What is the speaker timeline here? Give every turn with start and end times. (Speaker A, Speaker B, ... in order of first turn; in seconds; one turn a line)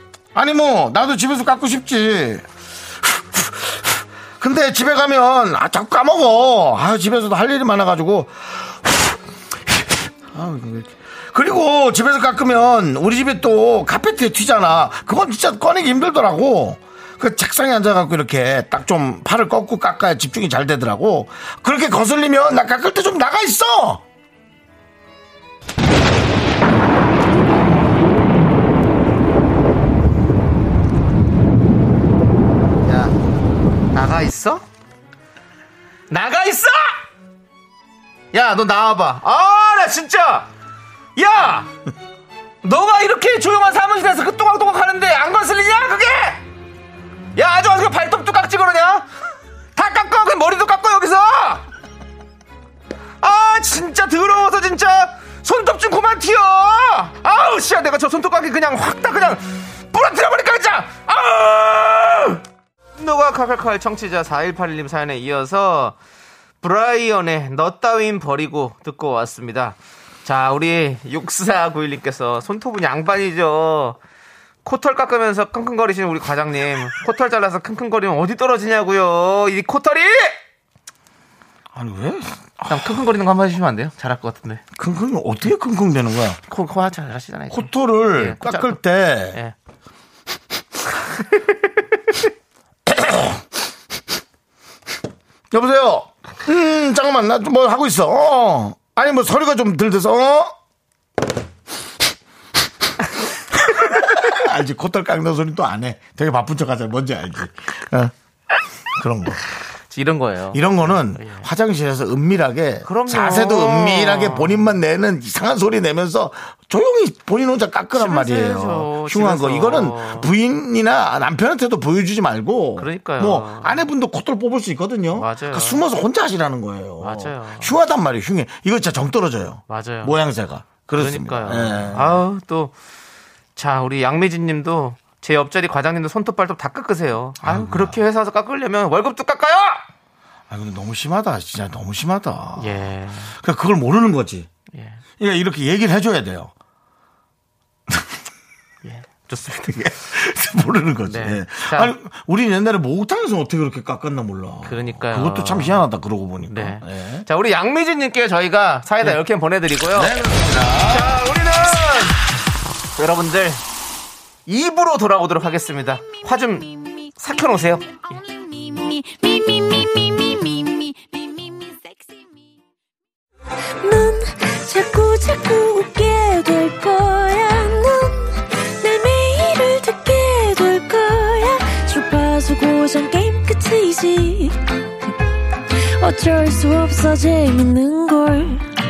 Speaker A: 0.3-2.5
Speaker A: 3.0-9.2
Speaker A: 9.7-24.0
Speaker B: 32.9-33.1
Speaker B: 33.9-34.6
Speaker B: 36.1-37.0
Speaker B: 38.3-40.5
Speaker B: 41.2-41.7
Speaker B: 42.6-46.4
Speaker B: 47.4-49.1
Speaker B: 49.8-51.6
Speaker B: 53.2-62.4
Speaker B: 63.0-66.0
Speaker B: 66.6-74.0
Speaker B: 74.6-80.4
Speaker A: 81.7-83.0
Speaker B: 82.7-84.6
Speaker A: 84.8-86.4
Speaker B: 86.5-88.8
Speaker A: 87.5-89.4
Speaker B: 91.1-91.6
Speaker A: 92.9-93.4
Speaker A: 95.5-100.5
Speaker A: 103.6-109.4
Speaker B: 109.9-111.5
Speaker A: 110.5-132.2
Speaker B: 112.8-114.7
Speaker B: 117.9-120.3
Speaker B: 122.8-123.8
Speaker B: 125.1-125.8
Speaker B: 127.0-127.8
Speaker B: 129.7-130.2
Speaker B: 131.0-132.7
Speaker B: 133.6-139.8
Speaker A: 137.4-138.0
Speaker A: 140.5-144.5
Speaker B: 142.6-143.3
Speaker B: 144.7-145.0
Speaker A: 145.2-146.5
Speaker B: 148.8-149.8
Speaker A: 149.7-157.3
Speaker B: 151.1-151.9
Speaker B: 154.7-155.8
Speaker B: 156.5-160.2
Speaker A: 159.9-161.2
Speaker B: 160.8-162.2
Speaker B: 162.9-163.6
Speaker B: 164.5-167.8
Speaker C: 166.7-167.1
Speaker C: 167.9-172.6
Speaker C: 173.8-184.6
Speaker C: 185.8-188.7